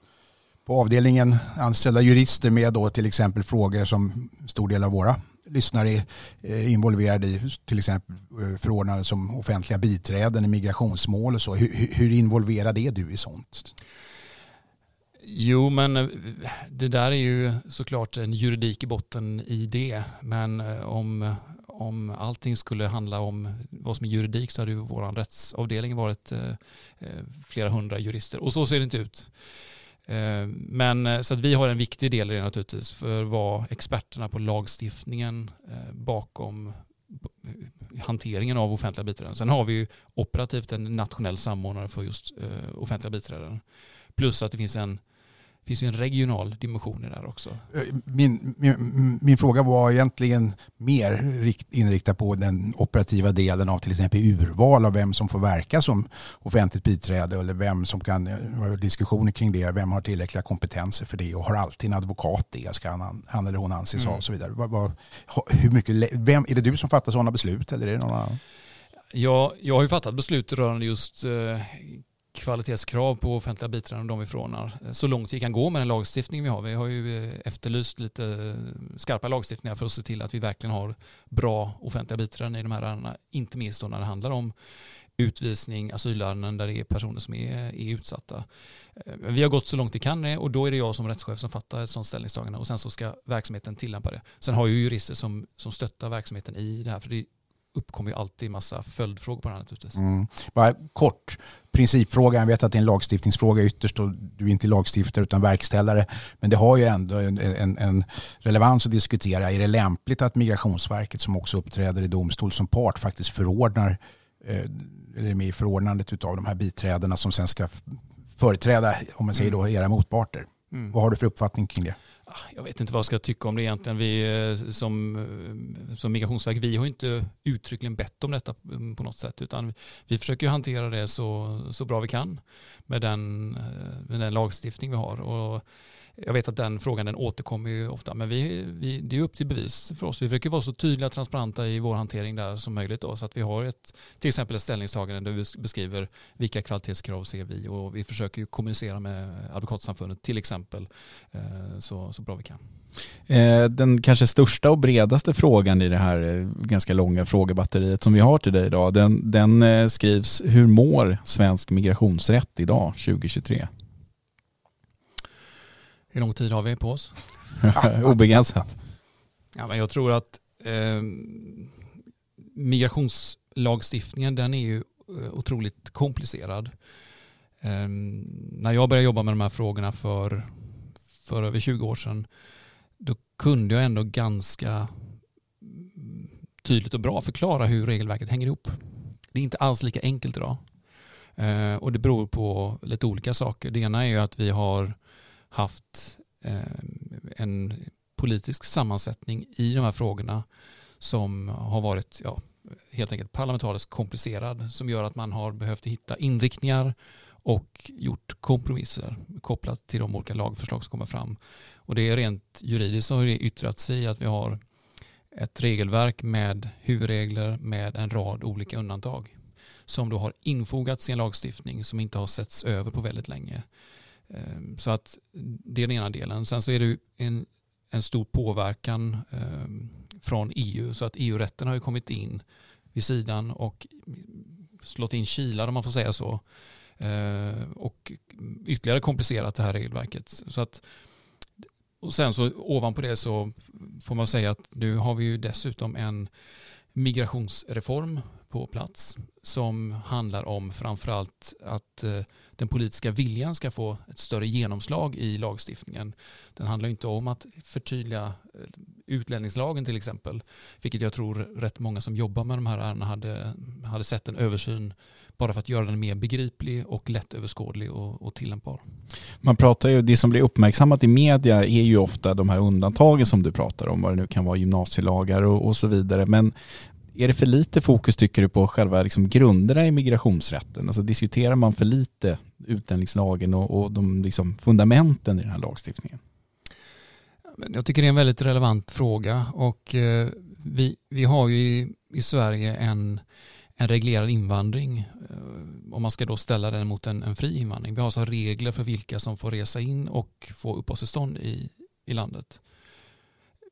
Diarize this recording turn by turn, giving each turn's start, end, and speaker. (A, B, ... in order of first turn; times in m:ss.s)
0:00.7-0:13.7 A
0:15.2-0:29.4 B
0:30.1-0:43.6 B
0:44.2-0:45.0 B
0:45.6-0:47.7 B
0:47.7-1:08.4 A
1:09.1-1:24.5 B
1:25.2-1:40.0 B
1:40.0-2:02.0 A
2:02.3-2:15.6 B
2:16.2-2:32.6 B
2:33.3-2:43.7 C
2:46.1-2:47.2 B
2:47.6-2:48.8 C
2:49.6-2:51.8 B
2:52.5-2:56.7 B
2:57.6-3:00.7 B
3:01.2-3:02.3 B
3:03.0-3:05.0 B
3:05.6-3:10.6 B
3:11.4-3:15.0 B
3:15.5-3:20.4 B
3:21.0-3:34.6 B
3:35.3-3:39.3 B
3:39.9-3:43.7 B
3:44.3-3:56.4 B
3:57.0-4:00.9 B
4:02.0-4:06.3 B
4:06.9-4:28.8 B
4:29.4-4:36.5 C
4:37.1-4:46.2 C
4:47.6-4:53.2 B
4:53.8-5:02.6 B